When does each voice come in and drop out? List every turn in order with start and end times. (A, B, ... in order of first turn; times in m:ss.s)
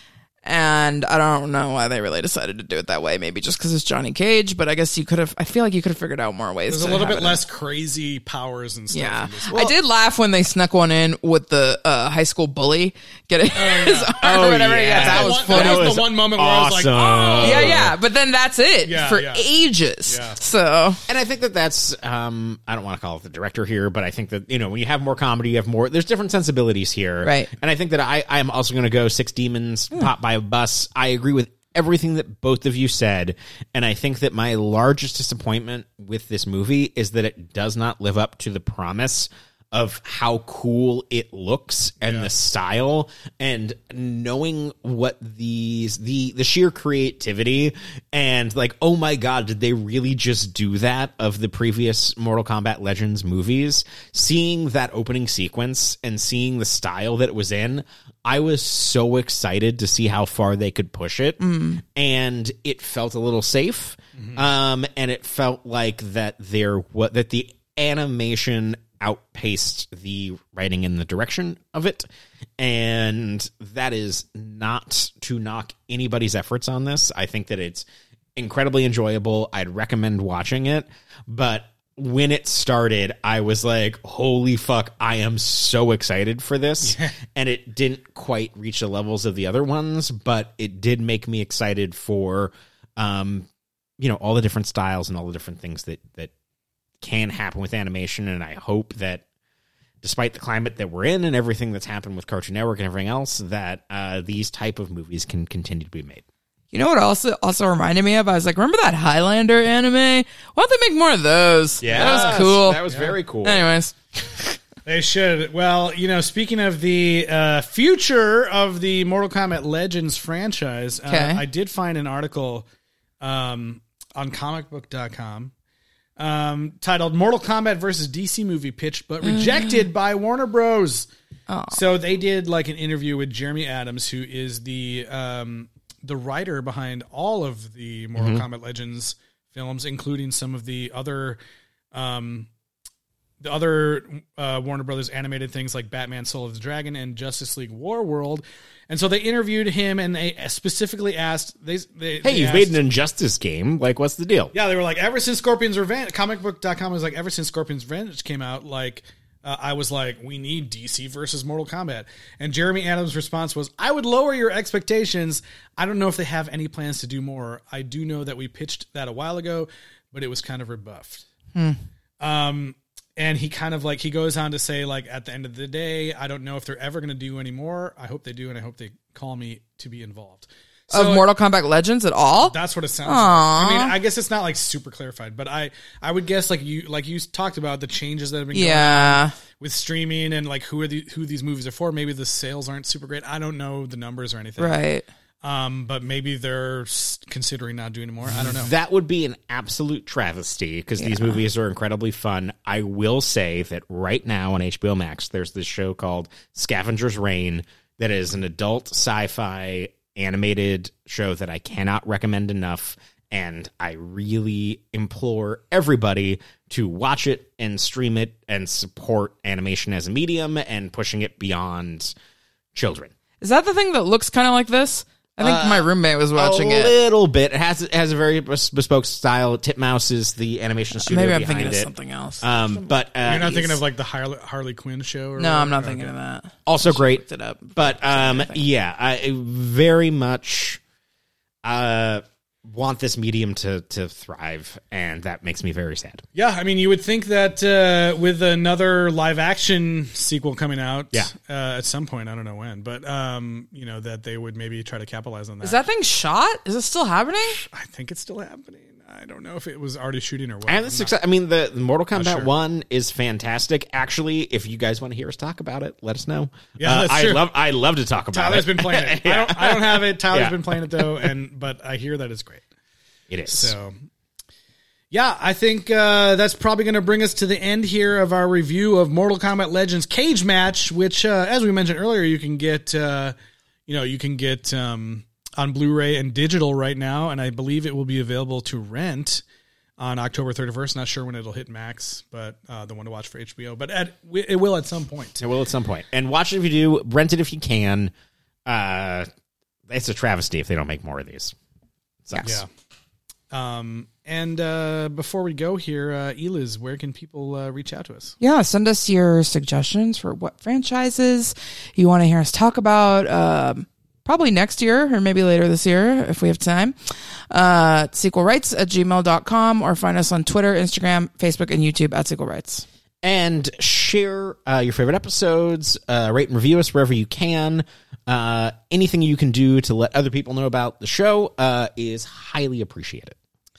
0:00.4-0:07.4 A
0:06.7-0:09.6 B
0:08.9-0:16.0 A
0:09.5-0:09.7 C
0:13.6-0:17.8 B
0:14.2-0:17.9 C
0:17.4-0:21.0 A
0:18.8-0:19.5 B
0:20.1-0:20.4 B
0:21.1-1:12.1 C
0:27.2-0:27.5 A
0:42.0-0:42.3 B
1:01.4-1:01.8 A
1:04.2-1:04.4 B
1:12.6-1:33.5 C
1:26.9-1:27.1 B
1:34.0-1:36.3 C
1:37.0-1:39.2 C
1:40.0-1:46.2 C
1:46.7-1:52.8 A
1:51.8-1:53.7 C
1:51.8-1:53.1 B
1:53.4-1:54.6 A
1:54.8-2:02.7 B
2:01.1-2:01.4 A
2:03.2-2:05.5 B
2:06.2-2:11.1 B
2:09.3-2:09.7 A
2:11.5-2:11.8 A
2:11.7-2:21.4 B
2:18.2-2:18.4 C
2:21.9-2:22.5 B
2:23.4-2:32.8 B
2:32.2-2:34.5 C
2:34.5-2:51.2 B
2:52.2-3:01.3 B
3:00.9-3:04.0 A
3:02.4-3:14.8 B
3:08.5-3:09.3 A
3:14.6-3:15.1 A
3:15.4-3:18.7 B
3:18.3-3:42.1 C
3:21.0-3:21.4 A
3:42.8-3:43.1 C
3:43.4-3:47.0 A
3:45.4-3:51.9 C
3:51.0-3:52.6 A
3:52.4-3:53.7 C
3:53.2-3:56.1 B
3:53.3-3:53.7 A
3:55.4-3:58.6 A
3:56.7-3:57.2 C
3:57.8-4:00.8 C
4:01.6-4:06.2 C
4:06.4-4:15.8 B
4:15.6-4:17.6 A
4:17.6-4:21.1 B
4:20.7-4:31.3 C
4:22.1-4:22.5 B
4:26.8-4:27.4 B
4:28.3-4:32.6 B
4:33.3-4:33.7 C
4:33.5-4:33.9 B
4:35.1-4:43.4 B
4:43.9-4:49.4 B
4:50.0-4:55.4 B
4:55.4-4:58.1 C
4:58.7-4:59.3 C
4:59.9-5:01.6 C
5:02.2-5:02.6 C
5:02.3-5:02.6 A
5:03.5-5:08.4 B
5:08.4-5:17.0 A
5:17.5-5:22.8 A
5:23.2-5:33.4 C